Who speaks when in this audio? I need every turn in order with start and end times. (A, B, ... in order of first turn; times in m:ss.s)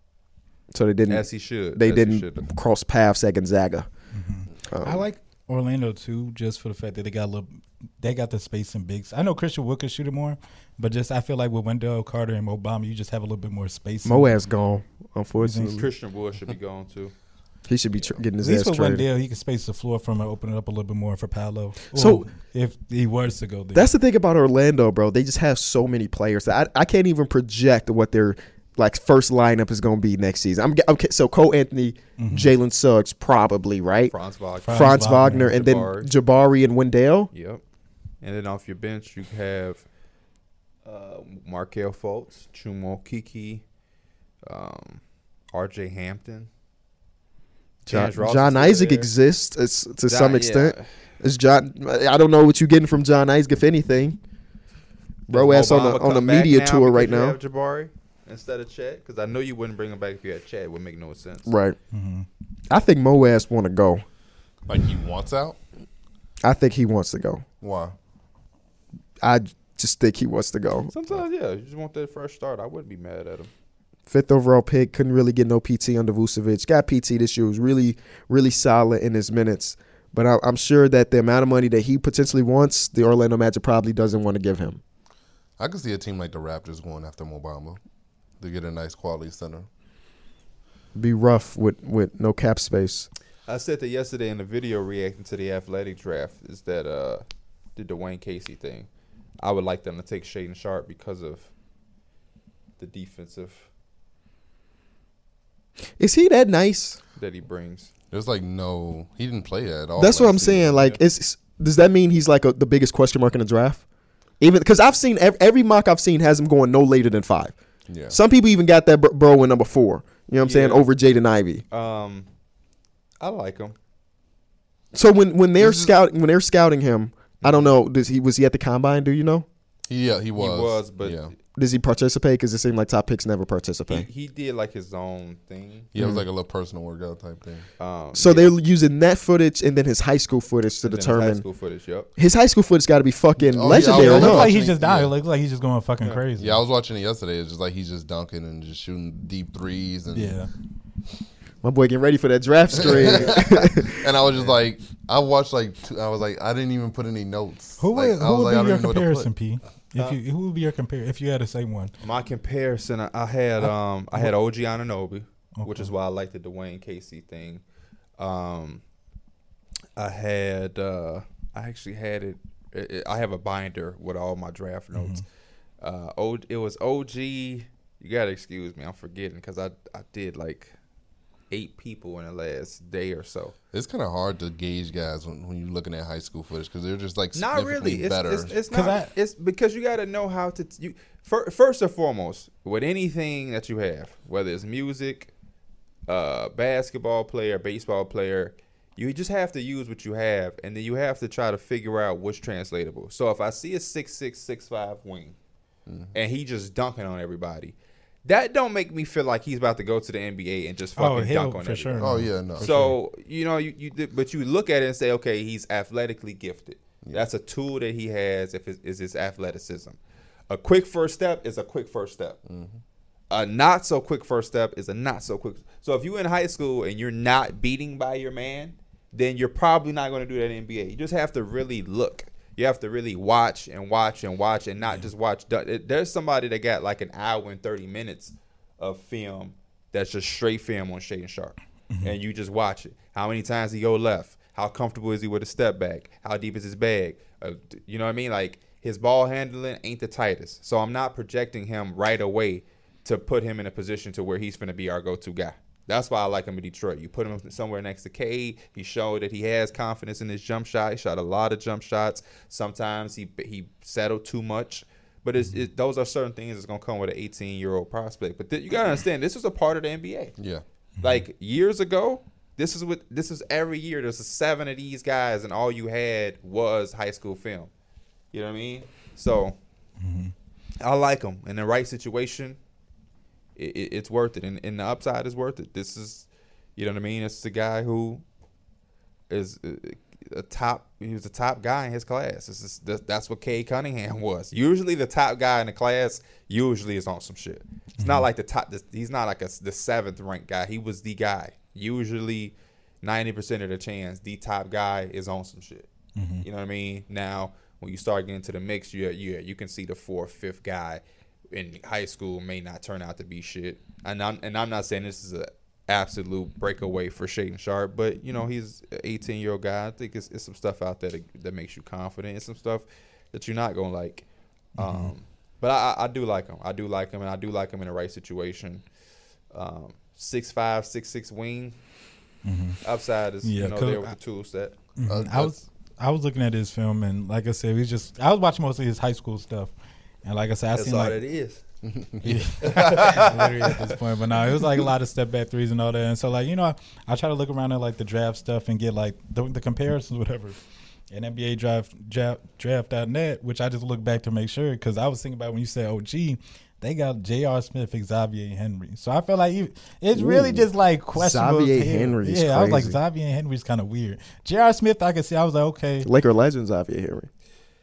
0:00.7-0:03.9 A
0:01.1-0:02.5 B
0:04.1-0:14.4 C
0:04.7-0:05.0 A
0:14.0-0:15.9 A
0:15.4-0:15.8 C
0:15.7-0:17.1 B
0:17.7-0:19.1 A
0:18.4-0:23.9 C
0:21.9-0:22.3 A
0:23.7-0:34.1 A
0:32.2-0:32.5 C
0:34.1-0:36.1 B
0:34.6-0:35.5 C
0:34.7-0:37.3 A
0:37.3-0:37.6 B
0:38.2-0:39.8 B
0:40.8-0:43.6 B
0:44.5-0:45.0 B
0:45.5-0:46.5 B
0:47.9-0:49.1 B
0:47.9-0:54.2 A
0:50.1-0:50.9 B
0:55.3-0:57.4 A
0:55.3-1:01.5 B
1:01.5-1:01.8 A
1:01.9-1:02.3 C
1:02.7-1:04.0 A
1:04.7-1:05.6 D
1:06.4-1:07.4 A
1:07.6-1:08.0 D
1:09.2-1:10.9 A
1:10.9-1:13.5 B
1:14.1-1:24.8 A
1:25.6-1:27.8 D
1:28.4-1:29.7 D
1:31.0-1:33.1 A
1:33.5-1:37.2 B
1:37.8-1:38.9 B
1:39.4-1:41.5 B
1:42.8-1:43.7 B
1:46.0-1:47.0 A
1:47.2-1:47.9 B
1:48.1-1:50.9 D
1:50.0-1:53.8 A
1:54.4-1:57.5 A
1:57.9-1:58.2 D
1:58.1-2:01.6 A
2:00.4-2:00.9 B
2:01.7-2:02.3 B
2:03.2-2:03.8 B
2:04.9-2:09.5 A
2:05.6-2:05.9 D
2:07.4-2:07.8 B
2:09.9-2:11.3 D
2:10.4-2:11.3 B
2:11.6-2:14.1 A
2:13.9-2:15.9 B
2:15.9-2:17.7 D
2:16.0-2:16.2 A
2:17.8-2:18.6 B
2:18.2-2:21.4 A
2:20.8-2:22.1 B
2:22.2-2:24.5 A
2:23.4-2:25.1 D
2:23.7-2:26.6 C
2:26.4-2:30.4 D
2:30.1-2:30.5 C
2:31.6-2:34.1 A
2:32.7-2:39.3 D
2:32.8-2:33.6 B
2:34.3-2:34.6 B
2:37.8-2:41.9 C
2:42.0-2:47.6 B
2:43.6-2:44.3 C
2:45.6-2:45.9 C
2:48.2-2:48.8 B
2:50.0-2:55.2 B
2:54.9-2:55.2 C
2:55.8-3:00.7 B
3:01.5-3:03.6 B
3:03.7-3:08.6 D
3:07.4-3:15.3 B
3:08.7-3:09.1 C
3:16.1-3:25.4 B
3:25.9-3:26.1 D
3:26.1-3:40.0 B
3:31.0-3:33.0 C
3:32.0-3:32.7 D
3:40.5-3:42.4 B
3:42.5-3:42.8 D
3:43.3-4:30.4 B
4:30.4-4:30.6 D
4:31.0-4:37.7 B
4:38.3-4:39.6 B
4:40.0-4:40.3 C
4:40.8-4:42.6 B
4:43.6-4:48.2 B
4:49.3-5:05.9 B
4:58.0-4:58.3 C
5:06.2-5:06.4 C
5:06.4-5:24.2 B
5:24.8-5:25.1 C
5:24.8-5:28.8 B
5:29.5-5:31.8 B
5:32.4-5:32.8 C
5:32.8-5:34.8 B
5:33.4-5:34.1 C
5:35.0-5:39.7 C
5:35.1-5:35.6 D
5:40.2-5:41.2 C
5:40.8-5:41.6 B
5:41.8-5:43.1 D
5:42.2-5:50.6 C
5:42.6-5:43.8 B
5:51.1-6:06.1 C
6:00.1-6:03.0 A
6:06.0-6:07.3 A